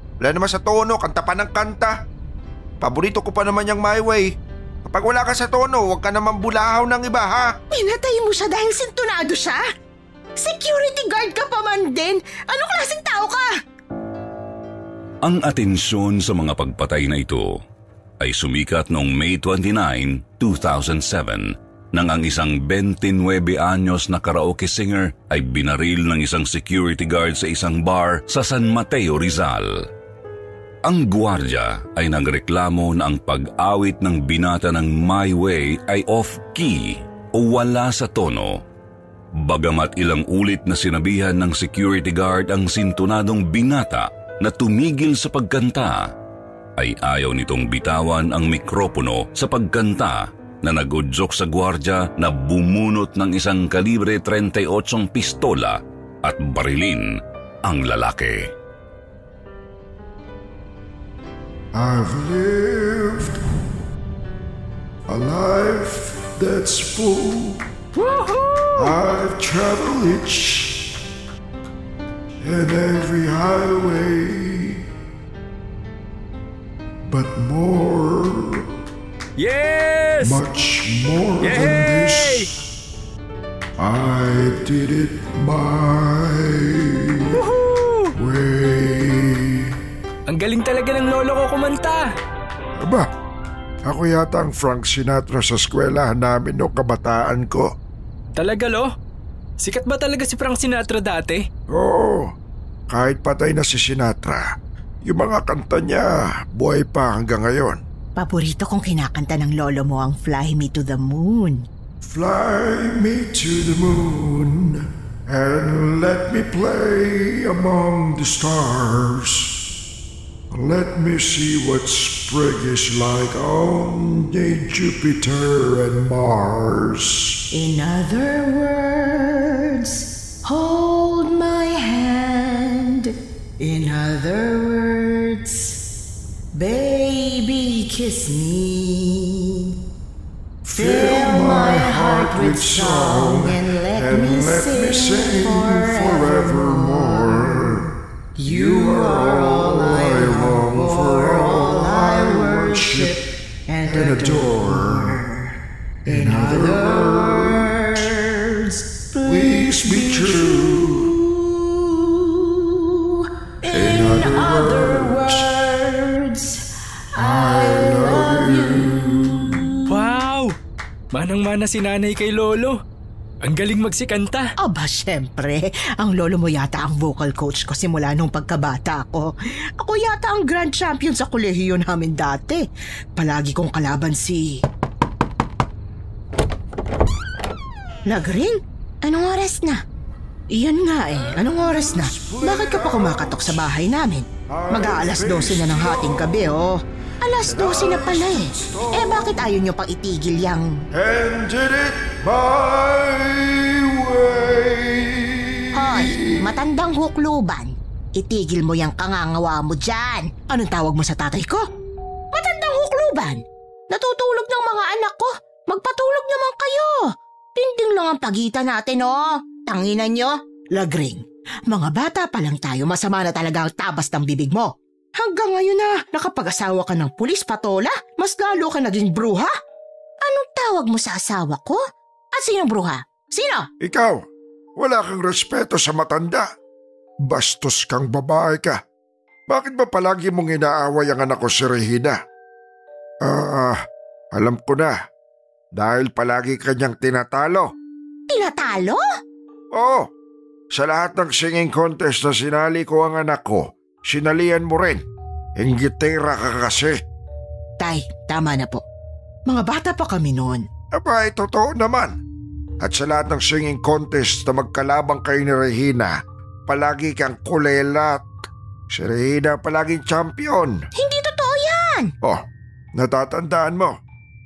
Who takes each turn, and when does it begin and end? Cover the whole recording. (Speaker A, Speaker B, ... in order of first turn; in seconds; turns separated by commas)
Speaker A: 0.2-2.0, Speaker A: 2.8-4.3, Speaker A: 4.8-7.5, Speaker B: 7.7-9.6, Speaker B: 10.4-13.5, Speaker C: 15.2-17.5, Speaker C: 18.2-29.7, Speaker C: 30.9-38.6, Speaker C: 39.4-46.1, Speaker C: 46.8-57.1, Speaker C: 57.7-58.5, Speaker D: 61.7-63.4, Speaker D: 65.1-67.6, Speaker E: 68.0-68.9, Speaker D: 68.8-70.9, Speaker D: 72.4-74.8, Speaker D: 77.1-78.7, Speaker E: 79.4-80.4, Speaker D: 80.2-82.5, Speaker E: 81.4-82.5, Speaker D: 83.8-87.4, Speaker E: 87.3-88.1, Speaker D: 88.2-89.7, Speaker E: 90.3-92.1, Speaker D: 92.8-93.1, Speaker D: 93.8-97.7, Speaker E: 98.4-98.9, Speaker E: 99.6-101.4, Speaker D: 101.7-102.3, Speaker D: 102.9-104.4, Speaker D: 105.0-107.8, Speaker B: 108.2-111.7, Speaker D: 112.0-119.5, Speaker D: 120.5-127.4, Speaker B: 127.5-135.8, Speaker B: 136.6-139.7, Speaker D: 140.6-147.9, Speaker B: 140.8-147.8, Speaker B: 148.4-155.3, Speaker D: 148.5-153.2, Speaker D: 153.9-155.3, Speaker D: 156.1-158.1, Speaker B: 156.1-170.1, Speaker D: 159.3-161.1, Speaker D: 163.7-165.5, Speaker D: 167.2-169.7, Speaker E: 169.9-170.6, Speaker E: 171.1-172.8, Speaker E: 173.4-174.5, Speaker B: 174.6-184.6, Speaker B: 188.1-189.8, Speaker B: 190.5-200.8, Speaker D: 192.1-193.5, Speaker D: 194.5-196.4, Speaker D: 197.4-199.4, Speaker D: 200.9-206.5, Speaker B: 205.7-211.7, Speaker B: 212.3-229.5, Speaker B: 230.2-231.8, Speaker B: 232.3-233.7, Speaker D: 233.8-234.2, Speaker D: 234.8-236.5, Speaker D: 237.2-238.8, Speaker D: 239.5-242.2, Speaker D: 243.2-243.8, Speaker D: 244.3-245.0, Speaker D: 245.8-247.7, Speaker B: 248.3-249.0, Speaker D: 249.7-250.1, Speaker D: 250.7-255.1, Speaker D: 255.6-257.0, Speaker B: 257.8-258.8, Speaker B: 259.5-260.7, Speaker D: 260.9-262.2, Speaker D: 262.8-268.3, Speaker D: 268.9-270.8, Speaker B: 270.9-272.1, Speaker D: 273.0-274.0